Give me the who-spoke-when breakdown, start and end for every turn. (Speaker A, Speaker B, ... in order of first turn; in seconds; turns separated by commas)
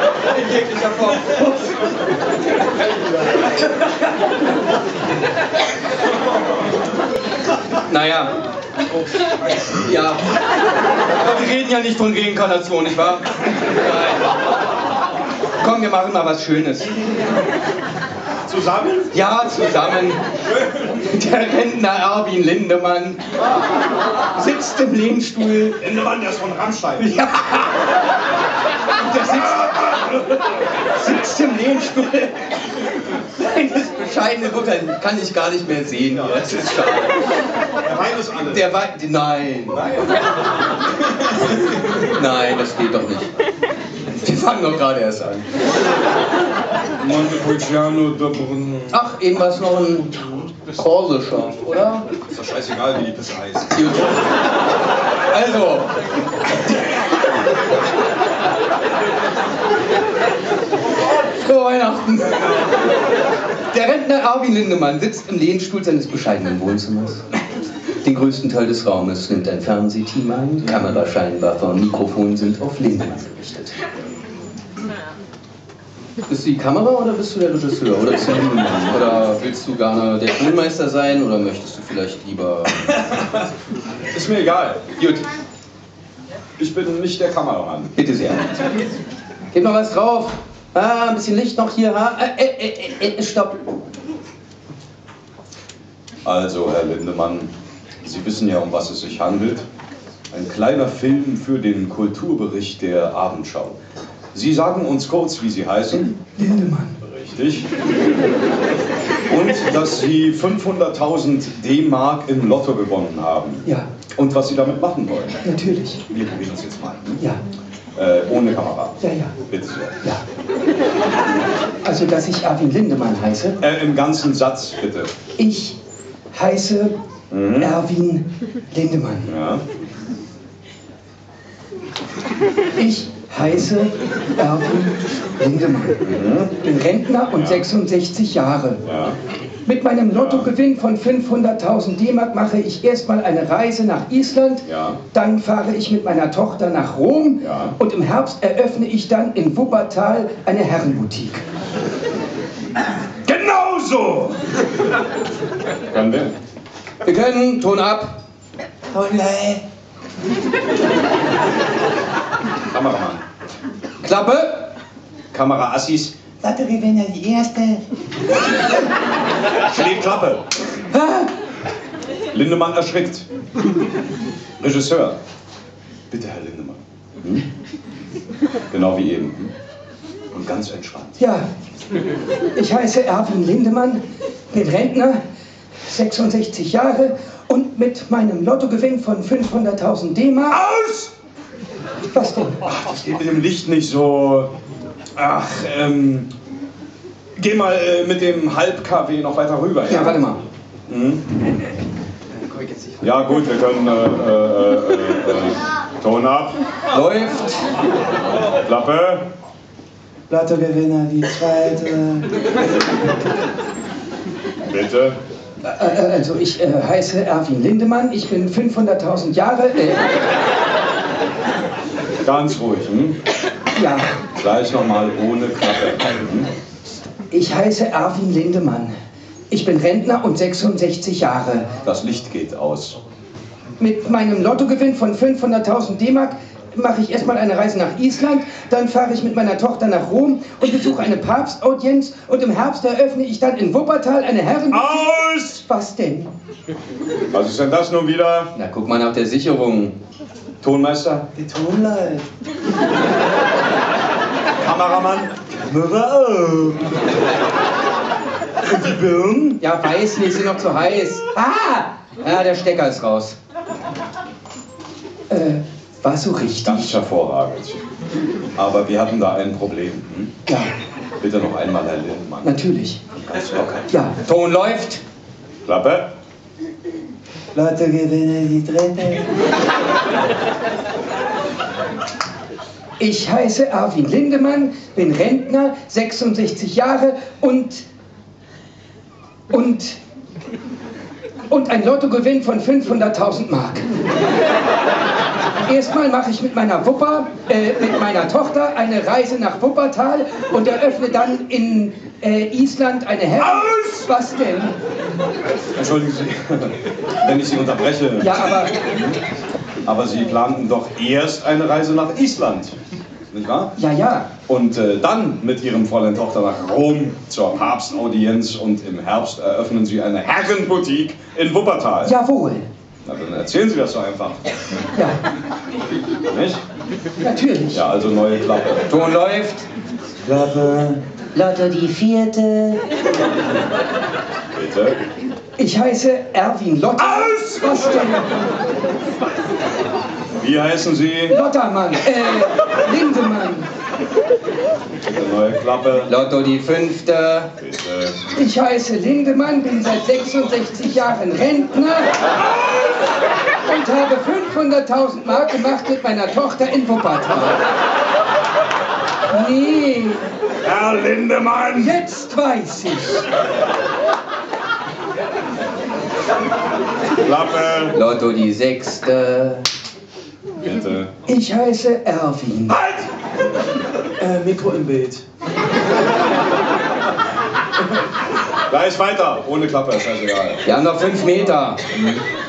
Speaker A: 0.3-1.7, Speaker A: 7.9-8.3, Speaker A: 9.8-10.2, Speaker A: 11.1-14.2, Speaker A: 15.6-16.9, Speaker B: 18.4-19.1, Speaker A: 19.1-20.2, Speaker A: 20.9-23.2, Speaker A: 24.3-25.8, Speaker B: 25.8-27.1, Speaker A: 27.0-27.9, Speaker A: 28.9-30.3, Speaker B: 29.6-29.9, Speaker A: 30.9-32.6, Speaker A: 33.4-37.2, Speaker B: 36.2-36.7, Speaker B: 37.8-38.7, Speaker A: 38.5-39.8, Speaker B: 39.7-40.1, Speaker A: 42.0-43.3, Speaker A: 44.1-45.5, Speaker B: 47.0-48.9, Speaker A: 48.9-52.1, Speaker B: 52.3-54.1, Speaker A: 53.7-54.1, Speaker A: 55.3-55.9, Speaker A: 61.2-62.7, Speaker A: 63.7-67.2, Speaker A: 68.0-73.8, Speaker A: 76.3-82.8, Speaker B: 82.9-83.4, Speaker B: 84.1-84.9, Speaker A: 85.0-85.2, Speaker B: 86.6-87.9, Speaker A: 88.0-88.7, Speaker A: 89.5-93.6, Speaker B: 96.2-97.5, Speaker B: 98.0-99.7, Speaker B: 100.3-103.8, Speaker B: 104.3-106.2, Speaker A: 106.3-107.0, Speaker B: 107.0-107.7, Speaker B: 109.3-115.4, Speaker A: 113.6-113.9, Speaker A: 115.4-116.0, Speaker B: 116.1-117.2, Speaker B: 117.9-120.0, Speaker A: 119.0-119.3, Speaker A: 121.8-123.6, Speaker B: 123.6-125.1, Speaker A: 125.4-125.8, Speaker A: 126.3-126.9, Speaker B: 127.3-127.8, Speaker A: 127.6-129.3, Speaker B: 129.3-129.6, Speaker A: 132.8-136.0, Speaker B: 136.0-136.6, Speaker A: 136.6-138.8, Speaker B: 137.3-137.6, Speaker B: 138.8-139.2, Speaker A: 139.6-151.4, Speaker B: 140.1-140.5, Speaker B: 144.7-145.0, Speaker B: 147.4-147.8, Speaker B: 153.2-154.4, Speaker B: 155.9-156.3, Speaker A: 157.0-158.2, Speaker C: 158.9-159.6, Speaker B: 162.6-163.2, Speaker A: 164.0-164.7, Speaker B: 165.3-166.2, Speaker C: 166.4-167.8, Speaker B: 169.6-170.4, Speaker A: 170.9-171.3, Speaker B: 172.3-173.2, Speaker B: 174.6-175.2, Speaker B: 176.1-177.4, Speaker B: 178.7-179.5, Speaker B: 180.3-181.2, Speaker A: 181.2-181.5, Speaker A: 182.5-185.2, Speaker A: 185.8-190.6, Speaker B: 190.5-191.1, Speaker A: 192.1-192.6, Speaker B: 192.6-194.5, Speaker B: 195.2-196.3, Speaker B: 197.3-200.2, Speaker A: 199.9-200.4, Speaker B: 200.9-201.3, Speaker B: 203.0-206.6, Speaker A: 206.9-207.7, Speaker B: 208.6-209.3, Speaker C: 210.3-212.3, Speaker B: 214.6-215.2, Speaker A: 215.6-220.1, Speaker B: 222.2-223.2, Speaker A: 223.7-224.1, Speaker B: 224.4-226.5, Speaker A: 227.3-228.9, Speaker A: 229.5-231.7, Speaker B: 231.8-233.0, Speaker A: 233.8-246.3, Speaker B: 244.7-245.6, Speaker B: 247.3-248.5, Speaker A: 248.6-249.9, Speaker B: 250.6-251.3, Speaker C: 251.4-252.2, Speaker B: 254.6-257.0, Speaker B: 258.6-259.6, Speaker A: 259.6-263.4, Speaker A: 265.3-267.0, Speaker B: 266.6-267.8, Speaker B: 268.6-270.3, Speaker B: 271.2-273.9, Speaker A: 272.4-273.0, Speaker A: 273.9-275.0, Speaker B: 275.6-276.1, Speaker C: 277.5-279.3, Speaker A: 283.0-287.8, Speaker A: 289.5-290.0, Speaker A: 291.5-293.9, Speaker A: 295.6-304.7, Speaker B: 303.4-304.0, Speaker B: 305.7-309.2, Speaker A: 308.2-308.9, Speaker B: 309.9-312.7, Speaker B: 313.3-313.7, Speaker A: 313.8-314.3, Speaker B: 314.5-322.1, Speaker A: 322.0-322.7, Speaker B: 323.0-324.4, Speaker A: 324.9-325.2, Speaker B: 326.2-326.6, Speaker A: 327.2-327.8, Speaker B: 327.7-328.9, Speaker A: 328.9-329.6, Speaker C: 330.3-331.7, Speaker C: 332.3-332.8, Speaker B: 334.5-335.0, Speaker A: 335.6-338.3, Speaker B: 337.1-338.0, Speaker B: 340.3-341.4, Speaker A: 341.3-343.7, Speaker B: 345.0-346.1, Speaker A: 346.1-347.5, Speaker B: 347.6-348.2, Speaker A: 348.3-352.2, Speaker A: 353.6-357.6, Speaker A: 359.3-360.4, Speaker B: 360.6-362.0, Speaker A: 361.8-363.3, Speaker B: 367.2-367.9, Speaker A: 367.9-369.6, Speaker B: 370.6-371.1, Speaker A: 371.2-372.8, Speaker B: 372.8-373.1, Speaker B: 374.2-375.2, Speaker B: 378.5-380.6, Speaker A: 380.6-382.0